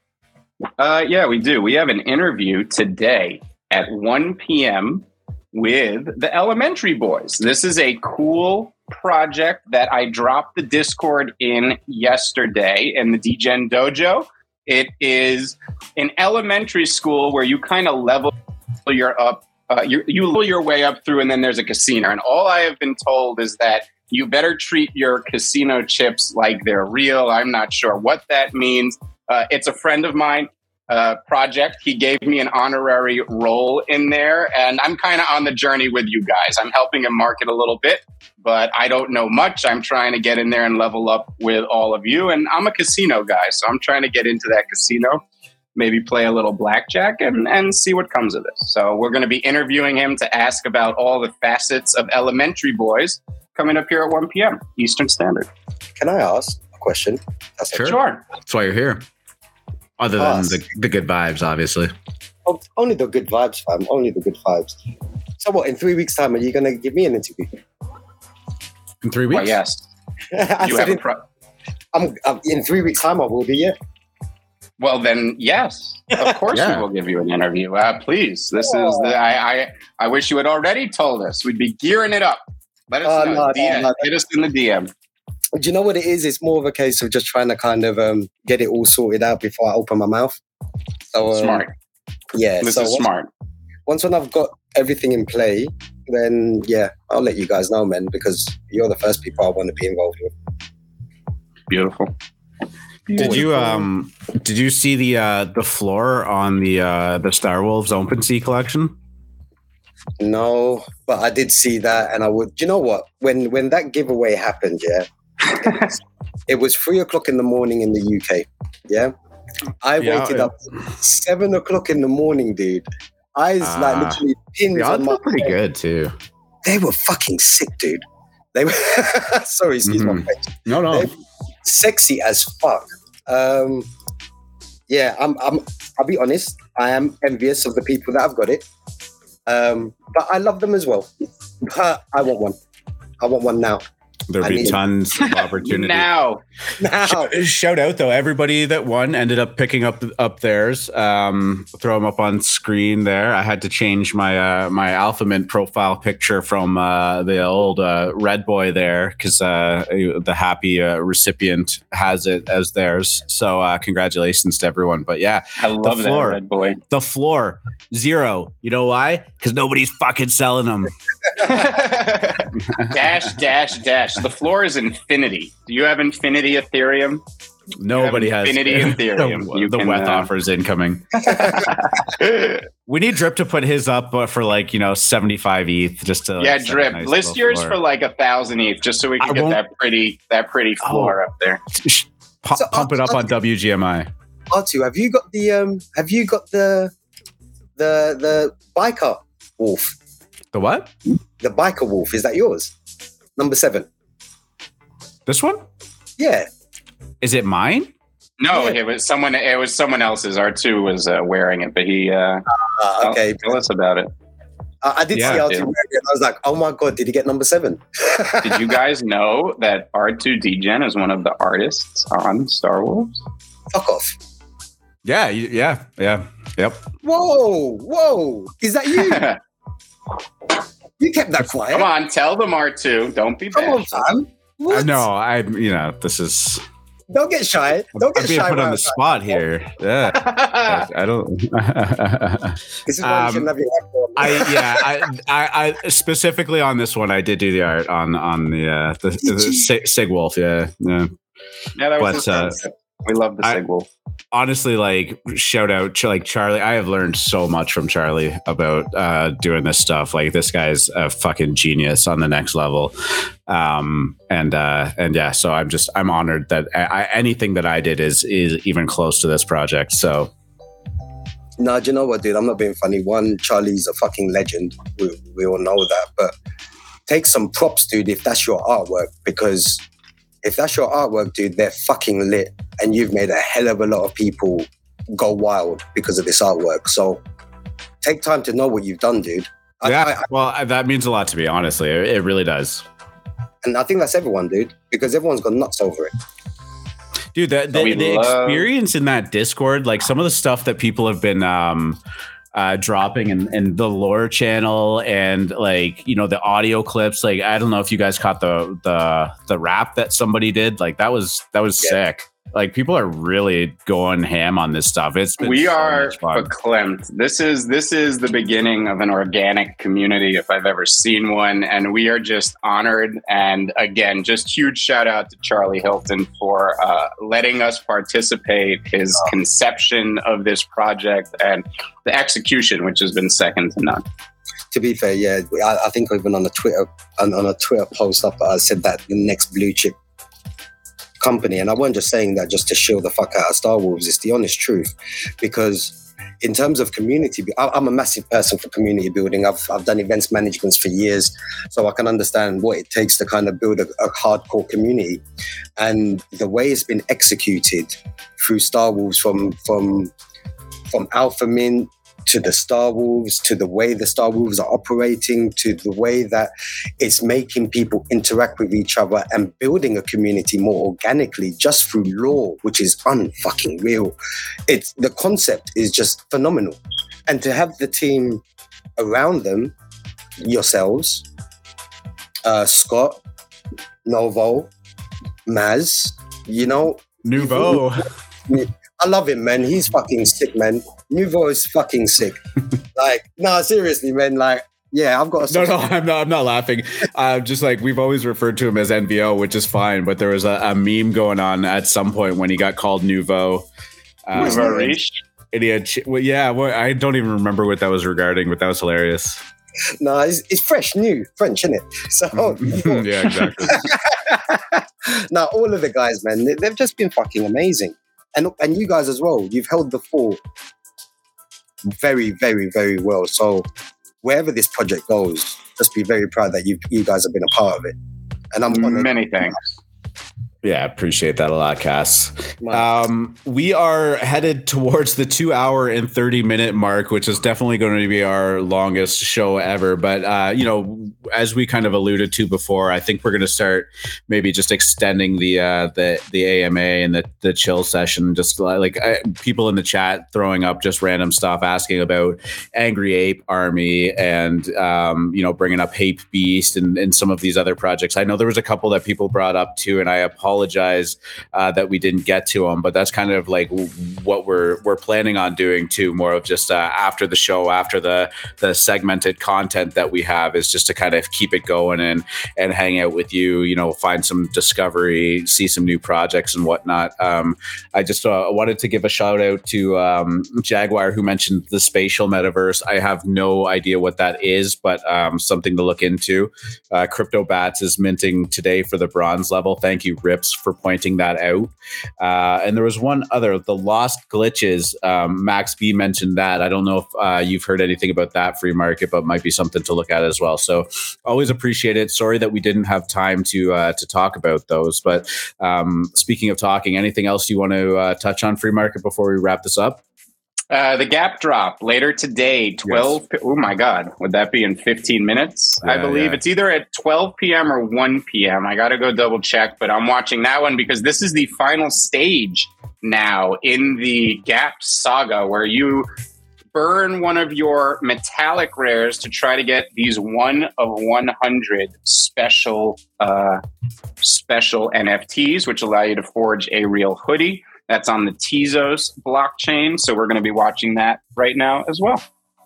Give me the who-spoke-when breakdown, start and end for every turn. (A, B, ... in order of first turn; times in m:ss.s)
0:00.8-0:45.2 A
0:45.8-0:55.5 A
0:56.0-0:58.0 B
0:57.7-0:59.0 C
0:57.8-0:58.2 A
1:00.0-1:01.9 C
1:00.2-1:00.6 B
1:02.4-1:04.8 B
1:05.4-1:07.6 B
1:09.0-1:09.5 C
1:09.3-1:09.9 A
1:10.3-1:11.0 B
1:10.6-1:11.2 A
1:11.9-1:13.8 B
1:14.8-1:24.9 A
1:16.5-1:16.8 C
1:18.6-1:19.1 B
1:23.0-1:24.0 B
1:25.6-1:30.4 B
1:31.1-1:31.6 B
1:31.2-1:31.7 A
1:32.3-1:33.1 B
1:32.6-1:33.3 A
1:33.8-1:40.3 B
1:41.7-1:42.1 A
1:43.1-1:43.5 A
1:43.2-1:48.9 C
1:50.2-1:55.1 B
1:55.5-1:55.9 A
1:56.5-1:59.1 B
1:59.8-2:05.6 B
2:00.0-2:00.5 C
2:03.6-2:04.2 C
2:04.7-2:06.1 C
2:06.6-2:11.1 B
2:09.9-2:11.1 C
2:11.6-2:13.9 B
2:14.9-2:18.7 B
2:19.4-2:22.6 B
2:23.2-2:23.8 B
2:24.3-2:26.1 C
2:24.4-2:24.8 B
2:25.2-2:26.4 A
2:26.8-2:27.3 B
2:27.0-2:50.9 C
2:45.6-2:46.8 A
2:51.4-2:57.2 A
2:57.8-3:01.6 C
2:57.9-3:00.3 A
3:01.2-3:02.6 A
3:02.9-3:07.8 C
3:06.4-3:11.6 A
3:09.2-3:09.6 C
3:10.8-3:11.2 C
3:11.7-3:14.1 C
3:12.6-3:13.3 B
3:14.5-3:16.9 B
3:17.8-3:20.0 B
3:20.5-3:20.9 C
3:21.4-3:22.7 B
3:23.4-3:23.9 B
3:25.3-3:25.6 C
3:26.2-3:26.5 B
3:27.2-3:27.9 C
3:28.4-3:32.4 A
3:32.7-3:33.6 B
3:33.0-3:34.1 A
3:34.8-3:38.8 B
3:35.1-3:35.4 C
3:35.1-3:35.7 A
3:38.4-3:43.2 A
3:43.7-3:44.2 B
3:45.0-3:46.8 C
3:47.0-3:49.3 B
3:48.9-3:49.4 A
3:51.0-3:51.9 B
3:51.7-3:54.1 A
3:53.5-3:55.0 B
3:54.7-3:56.6 C
3:57.1-3:59.4 B
3:58.0-4:03.5 C
4:00.0-4:00.9 A
4:02.9-4:04.9 B
4:04.2-4:11.1 C
4:11.8-4:13.9 A
4:12.0-4:12.6 C
4:14.3-4:22.9 C
4:23.5-4:30.3 C
4:31.6-4:36.3 B
4:37.1-4:39.8 B
4:40.4-4:47.2 B
4:48.0-4:50.2 B
4:49.8-4:52.8 C
4:53.6-4:56.1 B
4:57.3-5:02.0 C
4:57.7-4:58.7 A
5:02.5-5:16.5 C
5:15.4-5:34.0 A
5:34.7-5:40.0 B
5:41.2-5:55.2 B
5:55.8-6:00.1 B
6:00.9-6:14.1 B
6:14.7-6:18.4 B
6:19.0-6:19.7 B
6:20.4-6:21.2 B
6:22.4-6:23.2 B
6:24.0-6:24.7 B
6:25.4-6:27.9 B
6:27.2-6:28.1 C
6:28.5-6:32.4 B
6:32.9-6:35.9 B
6:35.5-6:43.6 C
6:44.2-6:45.0 C
6:44.3-6:45.2 A
6:44.4-6:44.9 B
6:45.5-6:49.4 C
6:50.0-7:00.4 B
6:52.4-6:53.9 C
7:01.9-7:03.7 B
7:04.2-7:08.0 B
7:08.5-7:09.1 B
7:08.7-7:09.6 A
7:10.6-8:30.0 C
7:12.6-7:12.9 B
8:30.7-8:46.1 A
8:32.8-8:33.2 C
8:35.8-8:36.4 C
8:46.7-8:53.6 A
8:54.2-9:02.2 A